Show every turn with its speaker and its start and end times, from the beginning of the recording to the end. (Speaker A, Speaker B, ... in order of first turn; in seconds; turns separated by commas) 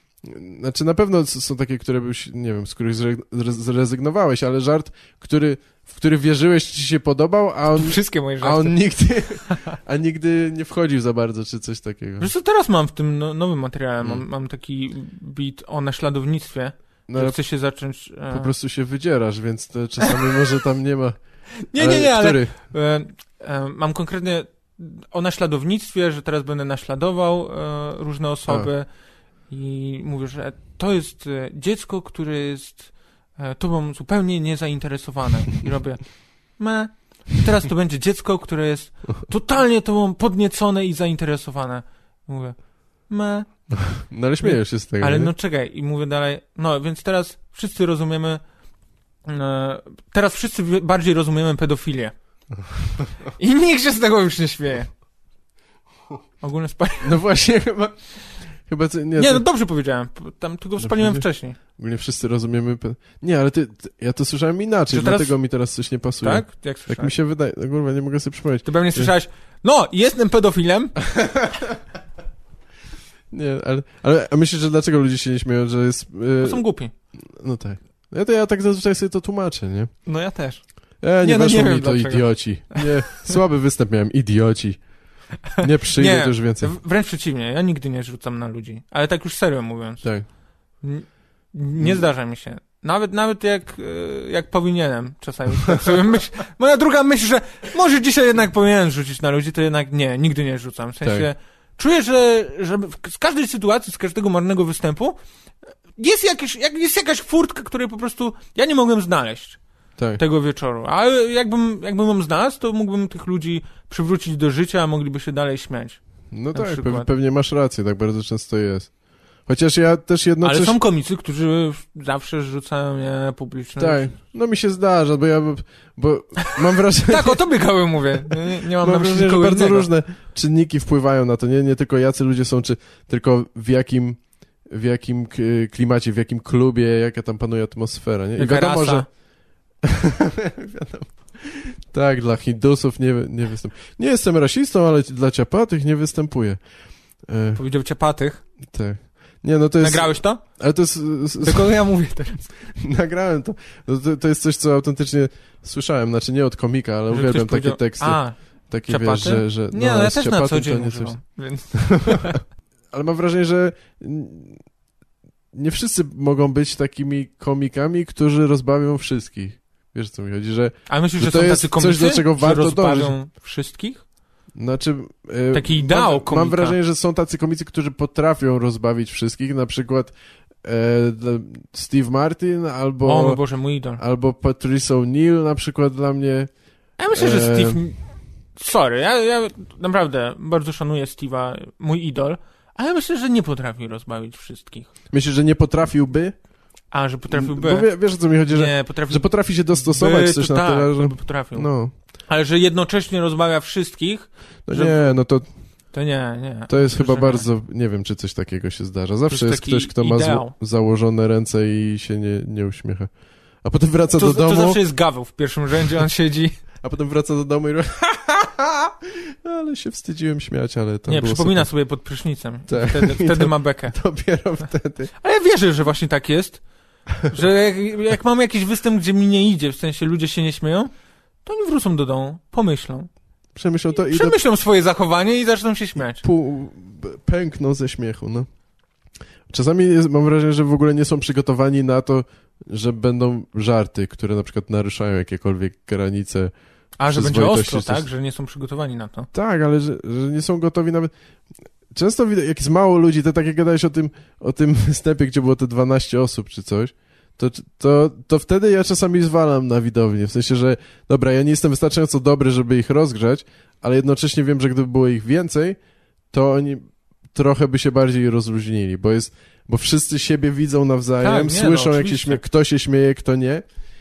Speaker A: 0.2-12.3, Speaker B: 7.7-8.8, Speaker B: 9.5-9.8, Speaker B: 12.2-18.5, Speaker A: 17.1-17.4, Speaker A: 18.3-21.2, Speaker B: 21.7-28.9, Speaker A: 21.7-22.5, Speaker B: 29.5-36.0, Speaker B: 36.6-43.7, Speaker A: 43.8-45.3, Speaker B: 44.4-48.4, Speaker B: 49.3-52.1, Speaker B: 53.4-54.9, Speaker B: 56.4-57.2, Speaker A: 57.0-58.0, Speaker A: 58.7-59.5, Speaker B: 59.2-61.6, Speaker A: 60.8-61.2, Speaker A: 61.8-69.1, Speaker B: 64.9-65.3, Speaker B: 66.2-67.1, Speaker B: 68.7-71.0, Speaker A: 71.0-71.8, Speaker A: 73.3-76.6, Speaker B: 76.4-76.9, Speaker A: 77.3-79.9, Speaker B: 80.1-80.6, Speaker A: 81.0-84.8, Speaker B: 81.2-83.3, Speaker B: 85.5-90.1, Speaker A: 85.6-86.7, Speaker B: 90.8-105.2, Speaker A: 91.8-92.0, Speaker A: 101.0-101.3, Speaker B: 106.0-109.6, Speaker B: 110.2-116.0, Speaker A: 116.3-118.9, Speaker B: 116.5-117.1, Speaker A: 119.5-120.8, Speaker B: 120.4-124.1, Speaker A: 123.8-127.5, Speaker B: 126.4-129.9, Speaker A: 128.2-139.1, Speaker B: 138.4-139.1, Speaker A: 139.8-146.6, Speaker A: 147.3-147.6, Speaker B: 147.6-148.4, Speaker A: 148.7-151.8, Speaker B: 149.8-150.4, Speaker B: 151.4-152.5, Speaker A: 152.7-158.2, Speaker B: 157.1-158.3, Speaker A: 158.7-161.2, Speaker B: 158.9-162.4, Speaker A: 161.8-162.4, Speaker A: 162.9-164.6, Speaker A: 165.5-173.2, Speaker B: 170.9-174.0, Speaker A: 174.6-180.1, Speaker B: 175.5-176.8, Speaker A: 180.6-183.4, Speaker B: 183.0-184.0, Speaker A: 184.0-186.5, Speaker B: 187.0-188.0, Speaker A: 187.1-187.8, Speaker B: 188.6-194.9, Speaker A: 195.1-196.3, Speaker B: 196.9-197.9, Speaker A: 197.3-201.9, Speaker B: 198.5-201.7, Speaker B: 202.3-205.2, Speaker A: 204.7-205.5, Speaker B: 205.9-207.5, Speaker A: 206.7-213.1, Speaker B: 209.3-210.5, Speaker A: 213.6-214.8, Speaker B: 214.1-216.6, Speaker A: 216.8-221.7, Speaker B: 221.1-223.9, Speaker A: 222.7-225.1, Speaker B: 225.2-226.6, Speaker B: 227.2-230.9, Speaker B: 231.4-233.1, Speaker A: 233.6-234.4, Speaker B: 234.1-236.2, Speaker A: 236.2-238.5, Speaker A: 239.5-246.5, Speaker B: 247.0-249.3, Speaker A: 247.1-248.1, Speaker A: 249.3-251.1, Speaker A: 251.9-265.8, Speaker A: 266.3-273.6, Speaker B: 271.2-272.4